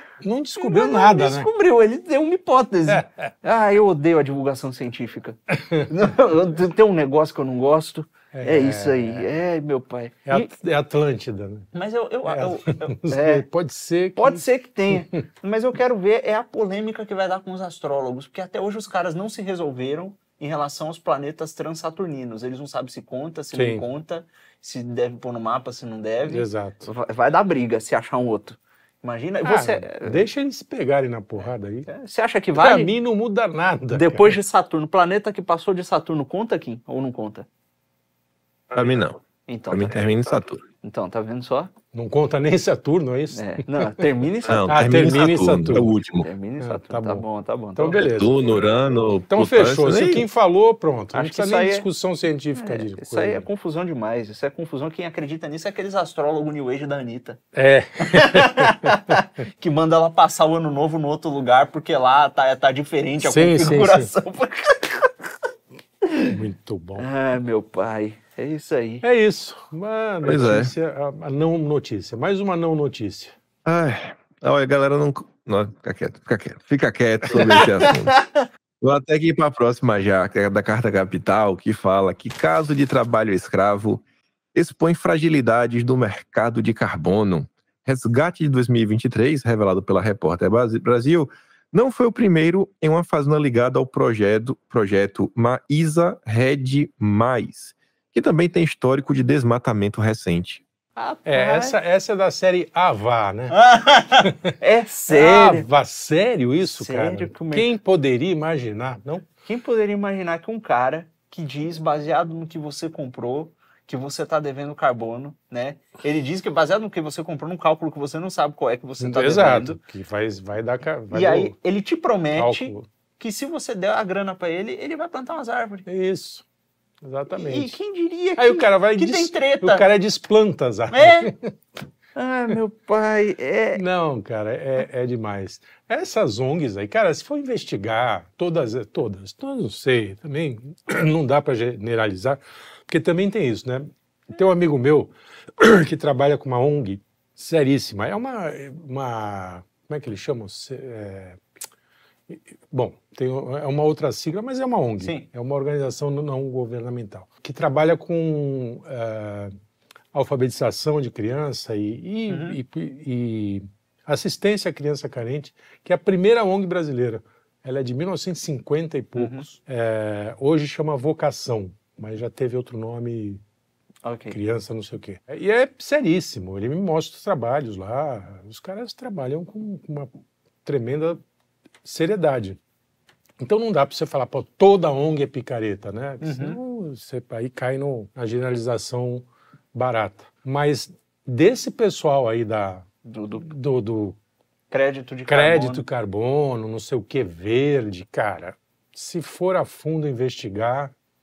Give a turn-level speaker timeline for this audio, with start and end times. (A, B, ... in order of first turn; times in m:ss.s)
0:00.2-0:01.5 A
0:00.6-0:10.5 B
0:05.5-0:05.9 A
0:08.3-0:09.3 A
0:10.3-0:11.7 A
0:11.7-0:13.5 B
0:12.2-0:15.1 A
0:14.2-0:30.2 B
0:23.5-0:23.8 A
0:26.3-0:26.9 A
0:29.4-0:31.9 A
0:31.9-0:32.9 B
0:32.6-0:34.4 A
0:33.9-0:37.5 B
0:38.7-0:39.2 C
0:39.5-0:41.7 B
0:39.7-0:40.6 C
0:41.9-0:44.1 A
0:43.3-0:45.1 B
0:44.4-0:46.3 C
0:44.7-0:45.9 A
0:46.1-0:48.0 B
0:46.6-0:48.4 A
0:47.9-0:50.3 C
0:49.3-0:53.5 A
0:51.1-0:51.9 B
0:52.6-0:57.4 B
0:57.5-0:59.2 A
0:58.0-1:05.1 B
1:03.2-1:04.1 A
1:06.0-1:06.4 B
1:06.3-1:07.1 A
1:07.0-1:09.0 B
1:09.0-1:13.3 A
1:10.2-1:10.7 C
1:13.6-1:18.2 C
1:17.4-1:17.7 A
1:17.4-1:18.4 B
1:18.8-1:24.0 C
1:24.5-1:40.6 C
1:41.0-1:41.8 B
1:41.2-1:43.6 A
1:43.5-1:45.7 B
1:44.2-1:44.6 A
1:45.1-1:49.3 A
1:46.8-1:47.7 B
1:49.5-1:59.8 B
1:59.0-2:01.6 A
2:01.1-2:05.9 B
2:02.4-2:02.9 A
2:05.9-2:06.4 A
2:07.0-2:07.8 A
2:07.3-2:09.8 B
2:08.4-2:11.5 A
2:10.9-2:11.3 B
2:12.2-2:13.8 B
2:13.8-2:31.4 A
2:32.3-2:39.5 A
2:35.0-2:35.3 B
2:40.1-2:53.4 A
2:42.3-2:42.6 B
2:49.2-2:49.4 B
2:54.0-2:54.4 B
2:54.3-3:00.1 A
3:00.6-3:01.2 A
3:01.8-3:02.6 A
3:03.4-3:12.9 A
3:06.2-3:06.6 B
3:13.0-3:13.5 B
3:13.4-3:14.2 A
3:14.7-3:15.8 B
3:15.3-3:20.9 A